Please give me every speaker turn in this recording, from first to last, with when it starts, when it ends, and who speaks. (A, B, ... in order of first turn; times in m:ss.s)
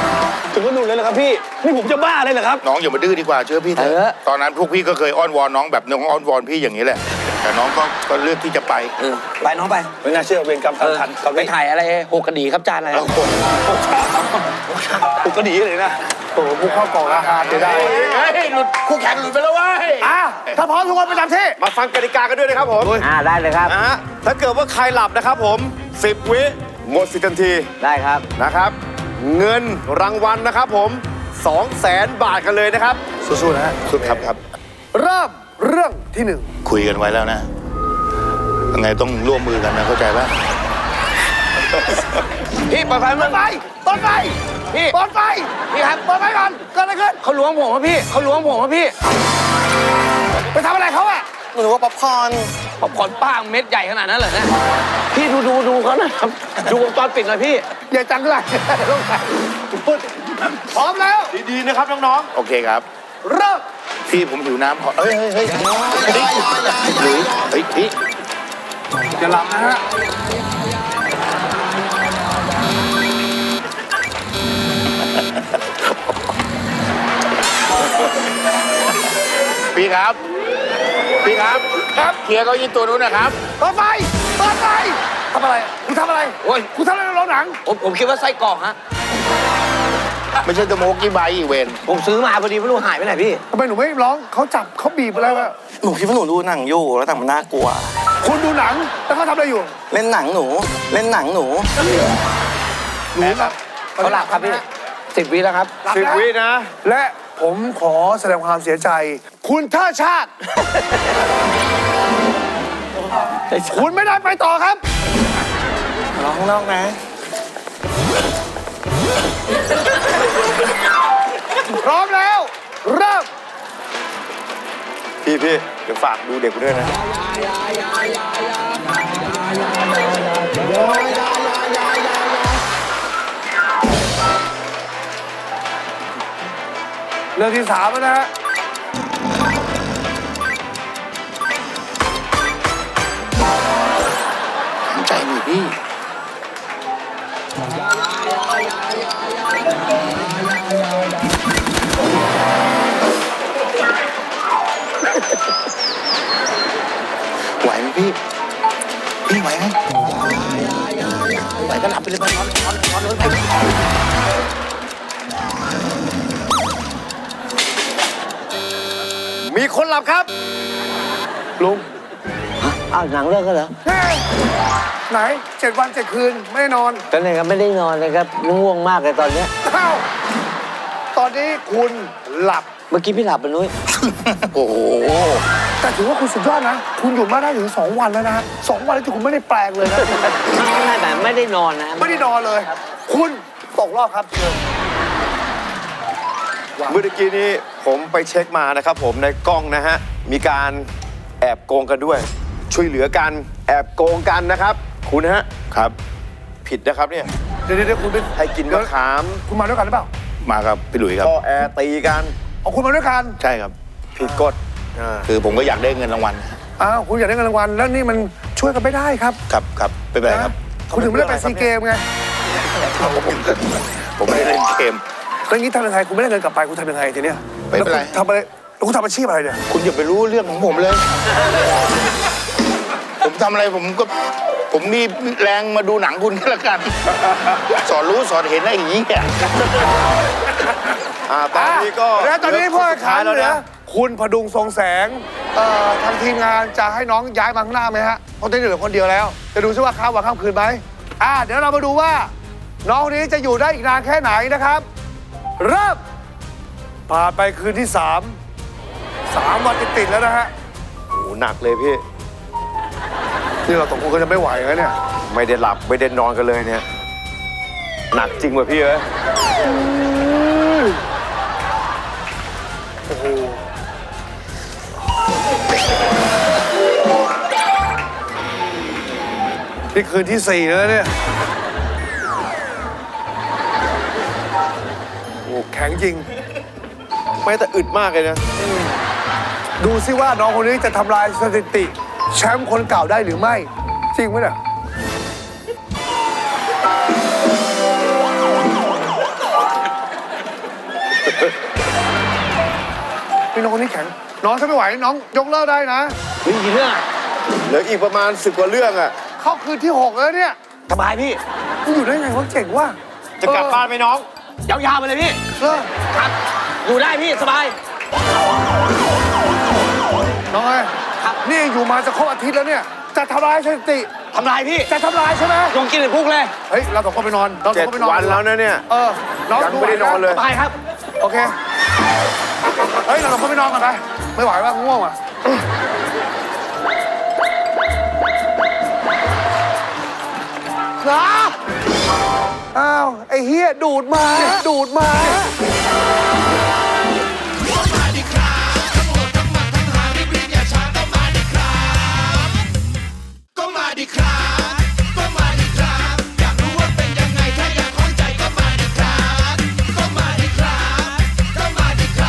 0:00.5-0:02.6 A
0:02.6-0:08.9 B
0:03.8-0:04.1 C
0:09.0-0:09.9 C
0:10.0-0:11.5 A
0:10.8-0:13.1 C
0:12.9-0:13.4 B
0:13.6-0:14.4 A
0:15.0-0:16.0 A
0:16.4-0:17.9 D
0:17.0-0:20.1 B
0:20.0-0:21.6 D
0:21.6-0:23.0 E
0:22.8-0:23.1 D
0:23.0-0:23.8 F
0:23.6-0:27.7 E
0:27.8-0:28.2 F
0:28.4-0:33.0 E
0:33.2-0:33.8 D
0:33.9-0:34.4 B
0:34.9-0:36.5 D
0:36.6-0:37.5 B
0:38.7-0:40.4 B
0:42.6-0:43.4 C
0:43.2-0:44.4 D
0:44.7-0:45.0 C
0:44.9-0:47.2 D
0:45.7-0:46.0 C
0:47.2-0:48.9 C
0:50.5-0:51.3 D
0:51.5-0:52.5 G
0:52.8-0:54.5 C
0:55.1-0:57.7 C
0:57.9-1:01.4 D
1:01.3-1:02.3 E
1:02.3-1:02.9 B
1:03.2-1:03.6 D
1:04.1-1:07.9 B
1:09.2-1:09.8 D
1:19.7-1:20.2 B
1:21.2-1:23.4 B
1:23.6-1:27.6 D
1:26.4-1:26.7 C
1:27.6-1:28.8 C
1:30.4-1:31.8 B
1:31.9-1:33.4 C
1:33.5-1:35.6 D
1:35.7-1:38.0 G
1:38.2-1:39.8 D
1:39.9-1:41.7 G
1:43.1-1:44.6 D
1:43.2-1:43.6 B
1:44.0-1:45.8 C
1:45.8-1:46.3 D
1:45.9-1:46.7 E
1:46.8-1:50.3 D
1:53.5-1:53.8 C
1:53.6-1:54.8 D
1:56.2-1:57.0 G
2:01.8-2:03.3 D
2:05.2-2:07.0 E
2:10.5-2:12.3 E
2:17.4-2:18.3 D
2:24.9-2:25.7 B
2:37.6-2:38.2 B
2:39.2-2:39.8 B
2:41.5-2:43.5 C
2:49.4-2:50.3 E
2:51.6-2:51.9 D
2:52.6-2:53.7 F
2:53.8-2:54.2 D
2:55.1-2:57.0 D
2:57.1-2:59.5 F
2:59.6-3:00.0 D
3:01.1-3:02.7 D
3:02.9-3:03.7 F
3:03.9-3:05.4 B
3:05.8-3:10.3 D
3:10.1-3:12.3 F
3:12.0-3:14.6 D
3:16.9-3:20.9 E
3:21.4-3:25.5 E
3:25.7-3:26.0 B
3:26.6-3:27.3 E
3:27.7-3:28.9 D
3:28.4-3:29.4 E
3:29.5-3:30.1 D
3:30.4-3:31.3 B
3:31.2-3:32.3 E
3:32.6-3:33.4 D
3:33.4-3:33.8 B
3:34.2-3:35.3 E
3:35.2-3:36.6 B
3:36.8-3:39.4 D
3:39.5-3:40.5 B
3:40.3-3:42.0 D
3:40.9-3:41.7 E
3:42.8-3:45.0 B
3:45.5-3:49.6 D
3:47.7-3:48.2 B
3:49.7-3:51.1 B
3:53.2-3:54.1 B
3:54.7-3:59.7 B
4:01.3-4:03.6 E
4:01.5-4:12.3 D
4:12.8-4:14.8 D
4:15.6-4:16.0 D
4:17.1-4:18.4 D
4:19.3-4:20.5 D
4:21.1-4:22.0 E
4:23.7-4:24.9 D
4:25.3-4:26.8 E
4:28.1-4:29.0 E
4:29.6-4:31.0 D
4:33.1-4:33.6 D
4:39.9-4:41.1 D
4:45.4-4:46.3 D
4:47.4-4:48.4 E
4:48.6-4:49.0 D
4:49.8-4:54.6 D
5:03.5-5:06.2 D
5:06.4-5:07.0 C
5:07.6-5:09.2 E
5:09.4-5:10.6 D
5:10.9-5:11.4 C
5:11.8-5:13.8 D
5:13.4-5:14.3 E
5:14.7-5:15.5 C
5:15.6-5:15.9 D
5:16.0-5:17.8 C
5:20.5-5:20.9 D
5:21.4-5:24.1 D
5:24.3-5:24.9 C
5:24.9-5:25.8 D
5:25.7-5:26.5 C
5:26.7-5:30.3 D
5:27.7-5:28.8 E
5:29.5-5:30.5 E
5:30.3-5:30.7 C
5:31.2-5:31.6 D
5:33.0-5:35.2 D
5:41.0-5:41.6 D
5:42.7-5:45.5 D
5:49.3-5:51.5 C
5:53.6-5:55.0 C
5:55.6-5:59.3 C